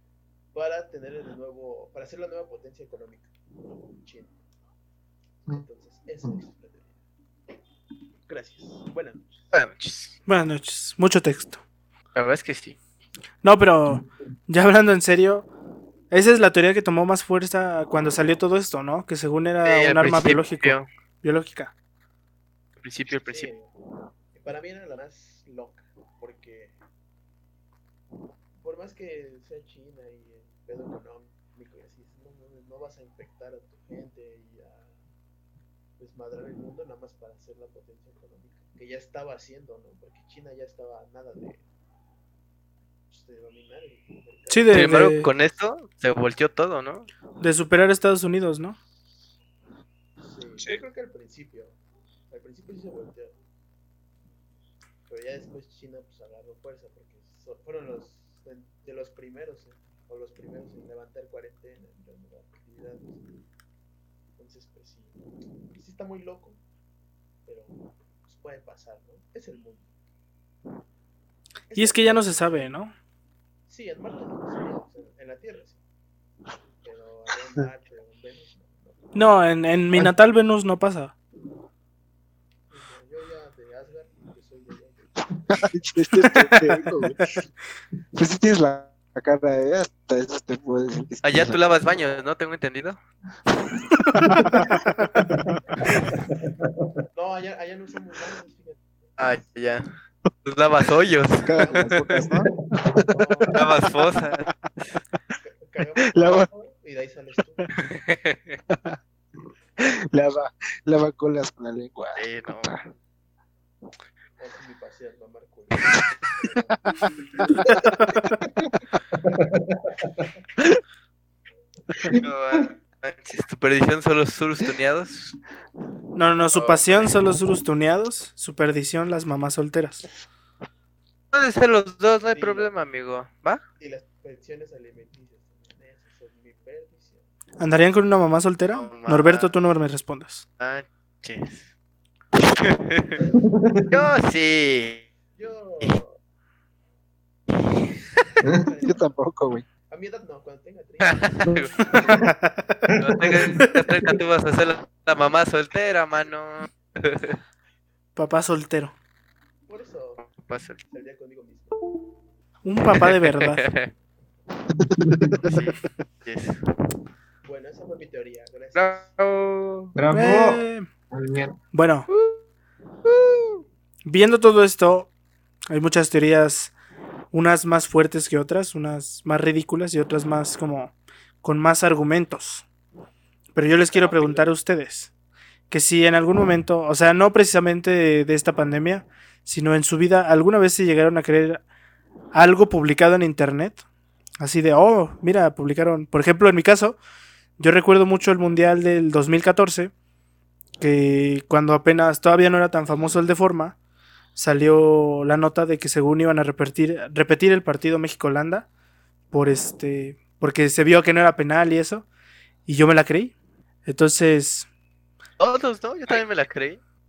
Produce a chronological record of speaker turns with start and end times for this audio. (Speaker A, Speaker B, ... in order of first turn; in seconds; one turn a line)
Speaker A: 0.5-4.3
Speaker A: 5.5-6.9
Speaker A: 8.3-9.3
Speaker B: 9.5-10.1
Speaker C: 10.3-11.6
Speaker B: 12.1-12.8
Speaker C: 13.4-15.5
Speaker C: 16.1-21.7
Speaker B: 19.6-20.9
Speaker B: 22.8-23.5
Speaker A: 23.1-23.7
Speaker A: 24.3-26.8
Speaker A: 28.6-34.9
Speaker A: 36.0-41.6
Speaker A: 43.1-45.1
Speaker C: 44.5-45.3
Speaker B: 44.7-47.1
Speaker C: 47.4-48.8
Speaker A: 50.2-51.8
Speaker A: 52.3-53.3
Speaker A: 55.1-63.2
Speaker A: 64.4-65.2
Speaker A: 65.7-66.6
Speaker A: 67.5-69.9
Speaker A: 71.7-72.7
Speaker C: 71.7-72.9
Speaker A: 73.7-75.8
Speaker A: 76.8-79.2
Speaker C: 79.1-81.1
Speaker A: 82.7-85.4
Speaker D: 85.5-87.2
Speaker D: 88.1-91.6
Speaker B: 91.2-93.0
Speaker C: 94.1-95.2
Speaker E: 94.3-94.6
Speaker E: 96.6-97.0
Speaker A: 97.1-99.4
Speaker B: 99.2-99.9
Speaker B: 100.4-102.2
Speaker D: 101.4-103.1
Speaker A: 101.5-102.3
Speaker E: 102.4-102.8
Speaker A: 103.0-103.9
Speaker B: 103.5-104.5
Speaker A: 105.4-107.7
Speaker D: 106.1-106.5
Speaker B: 107.8-108.6
Speaker D: 108.7-109.0
Speaker D: 109.8-112.8
Speaker B: 112.2-112.7
Speaker A: 114.4-118.3
Speaker E: 119.1-120.1
Speaker B: 122.2-125.4
Speaker C: 126.2-130.0
Speaker B: 126.5-127.1
Speaker B: 131.3-133.6
Speaker A: 132.3-132.7
Speaker A: 133.8-137.2
Speaker C: 137.6-140.4
Speaker B: 138.7-139.5
Speaker B: 140.6-141.7
Speaker B: 142.4-143.2
Speaker E: 143.3-144.0
Speaker B: 143.9-145.1
Speaker A: 145.3-146.2
Speaker E: 148.4-148.7
Speaker A: 148.5-149.1
Speaker D: 148.8-149.6
Speaker A: 149.9-152.3
Speaker B: 151.0-152.0
Speaker E: 151.9-152.2
Speaker C: 152.2-152.7
Speaker E: 152.9-153.8
Speaker B: 153.0-157.4
Speaker C: 158.2-158.9
Speaker A: 159.7-160.2
Speaker B: 160.2-160.8
Speaker A: 160.9-161.8
Speaker C: 162.6-163.6
Speaker B: 162.9-163.9
Speaker D: 164.7-165.6
Speaker E: 165.1-165.3
Speaker B: 165.4-166.6
Speaker A: 167.4-169.2
Speaker B: 168.7-169.9
Speaker E: 169.9-171.6
Speaker C: 170.1-170.9
Speaker C: 171.7-172.1
Speaker B: 172.1-172.4
Speaker B: 173.0-173.6
Speaker C: 174.1-175.1
Speaker C: 175.7-176.7
Speaker C: 177.3-182.7
Speaker C: 183.5-185.1
Speaker A: 183.8-184.5
Speaker C: 185.7-191.6
Speaker C: 192.3-193.8
Speaker C: 194.4-197.0
Speaker C: 197.6-199.9
Speaker C: 200.8-203.8
Speaker C: 204.3-208.7
Speaker C: 209.3-212.1
Speaker C: 212.7-213.3
Speaker C: 213.8-214.7
Speaker B: 215.4-216.8